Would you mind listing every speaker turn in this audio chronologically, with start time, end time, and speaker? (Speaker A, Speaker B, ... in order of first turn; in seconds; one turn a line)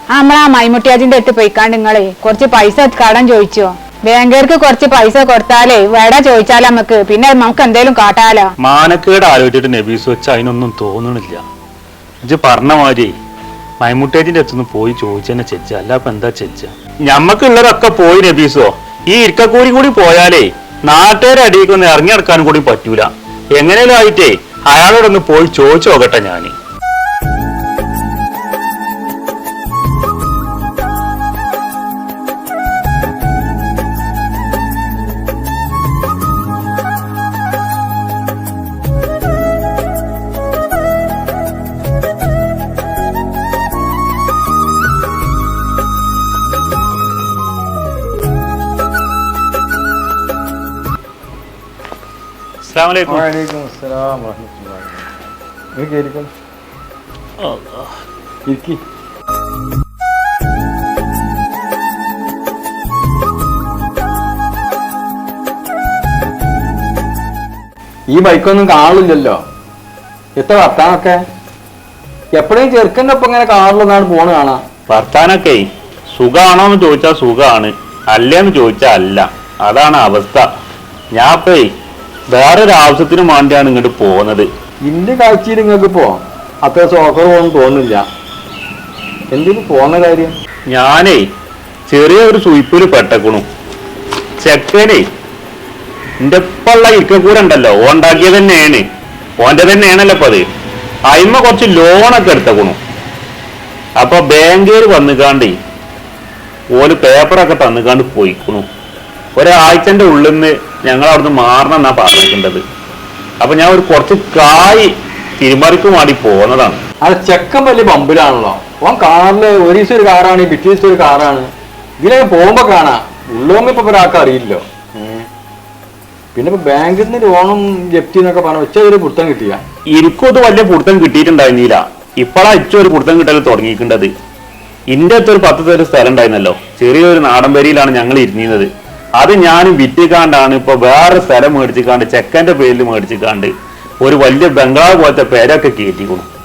Speaker A: 0.1-8.5
Speaker B: 8.6-11.4
Speaker B: 12.2-13.2
Speaker B: 13.8-26.5
Speaker B: 52.6-53.3
Speaker C: 53.1-54.9
Speaker C: 55.8-56.3
Speaker B: 57.4-57.9
Speaker C: 58.5-58.8
Speaker C: 68.1-69.4
Speaker C: 70.4-71.2
Speaker C: 72.4-74.6
Speaker B: 74.9-80.4
Speaker B: 81.2-81.7
Speaker B: 82.3-84.5
Speaker C: 84.8-88.1
Speaker C: 89.3-90.4
Speaker B: 90.7-91.2
Speaker B: 91.9-93.5
Speaker B: 94.4-95.0
Speaker B: 96.2-98.8
Speaker B: 99.4-100.5
Speaker B: 101.1-102.8
Speaker B: 104.0-105.5
Speaker B: 106.8-108.7
Speaker B: 109.4-112.6
Speaker B: 113.4-116.8
Speaker C: 117.0-125.2
Speaker C: 126.3-129.6
Speaker B: 130.0-134.1
Speaker B: 134.9-138.7
Speaker B: 139.2-143.5
Speaker B: 144.0-146.3